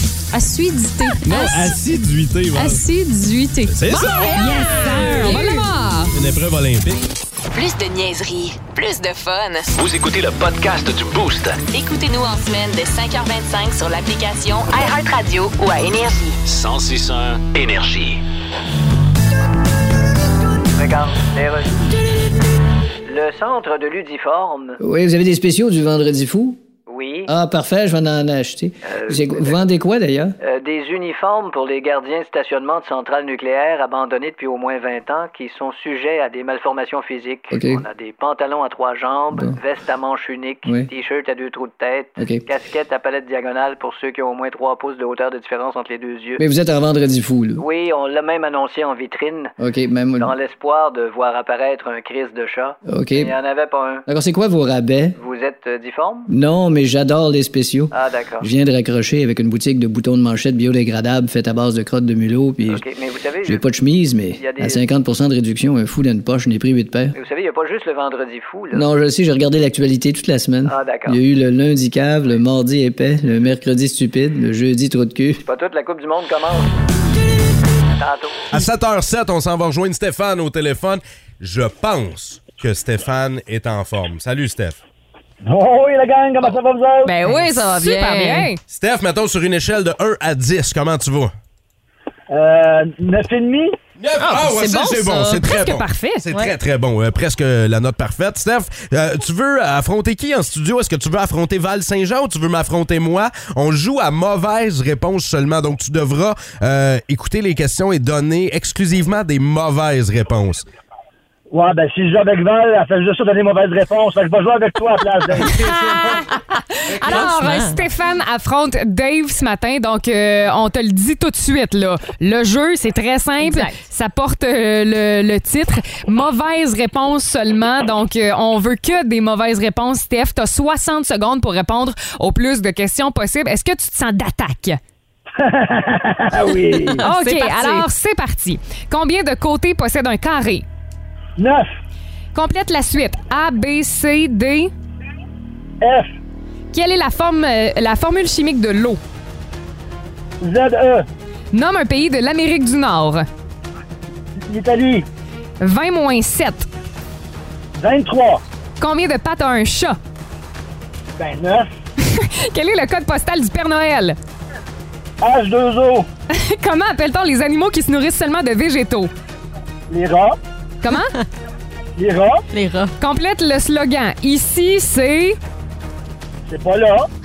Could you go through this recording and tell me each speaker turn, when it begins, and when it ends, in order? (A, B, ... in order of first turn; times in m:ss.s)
0:00.3-0:01.8 A
0:01.2-0:02.8 B
0:02.5-0:06.0 A
0:03.7-0:05.2 B
0:04.4-0:06.0 C
0:06.1-0:07.0 B
0:07.5-0:09.7 D
0:09.7-0:11.6 E
0:11.7-0:16.4 D
0:16.4-0:18.2 E
0:20.8-0:21.7 F
0:23.1-0:24.8 F
0:24.8-0:26.6 G
0:26.9-0:27.3 F
0:27.3-0:30.3 G
0:28.8-0:29.6 F
0:30.4-0:46.4 F
0:37.5-0:37.8 G
0:39.3-0:39.6 G
0:42.2-0:42.4 G
0:46.4-0:47.6 G
0:47.6-0:49.5 F
0:49.6-0:50.3 G
0:50.2-0:54.0 F
0:52.8-0:53.3 G
0:54.1-0:55.1 G
0:55.1-0:56.3 F
0:56.3-1:02.8 G
0:57.9-0:58.5 F
1:02.7-1:03.7 F
1:03.4-1:07.2 G
1:04.4-1:04.9 F
1:07.1-1:08.9 F
1:08.7-1:15.4 G
1:10.6-1:11.2 F
1:15.4-1:16.7 F
1:18.0-1:18.4 F
1:18.5-1:24.8 B
1:25.4-1:27.1 H
1:27.0-1:28.5 A
1:27.5-1:28.6 C
1:28.7-1:31.3 B
1:32.3-1:33.8 H
1:34.0-1:50.6 B
1:34.2-1:35.5 A
1:35.4-1:36.3 C
1:51.5-1:55.4 H
1:55.4-1:56.3 C
1:55.4-1:56.3 B
1:56.9-1:57.4 B
1:56.9-2:14.8 C
1:57.0-1:57.8 A
2:03.4-2:03.8 A
2:15.4-2:17.0 H
2:16.5-2:17.9 A
2:17.0-2:20.6 C
2:21.4-2:21.7 H
2:22.3-2:24.7 C
2:25.8-2:26.1 H
2:26.7-2:29.0 C
2:30.4-2:31.1 H
2:31.5-2:33.2 C
2:34.4-2:35.0 H
2:35.6-2:36.7 C
2:37.8-2:38.4 H
2:38.8-2:40.0 C
2:41.2-2:41.7 H
2:42.0-2:44.2 C
2:45.2-2:46.1 H
2:46.3-2:49.1 C
2:49.9-2:50.4 H
2:50.8-2:51.1 C
2:50.9-2:51.2 A
2:52.0-2:52.4 H
2:52.5-2:52.9 A
2:53.0-2:55.4 C
2:56.5-2:57.1 H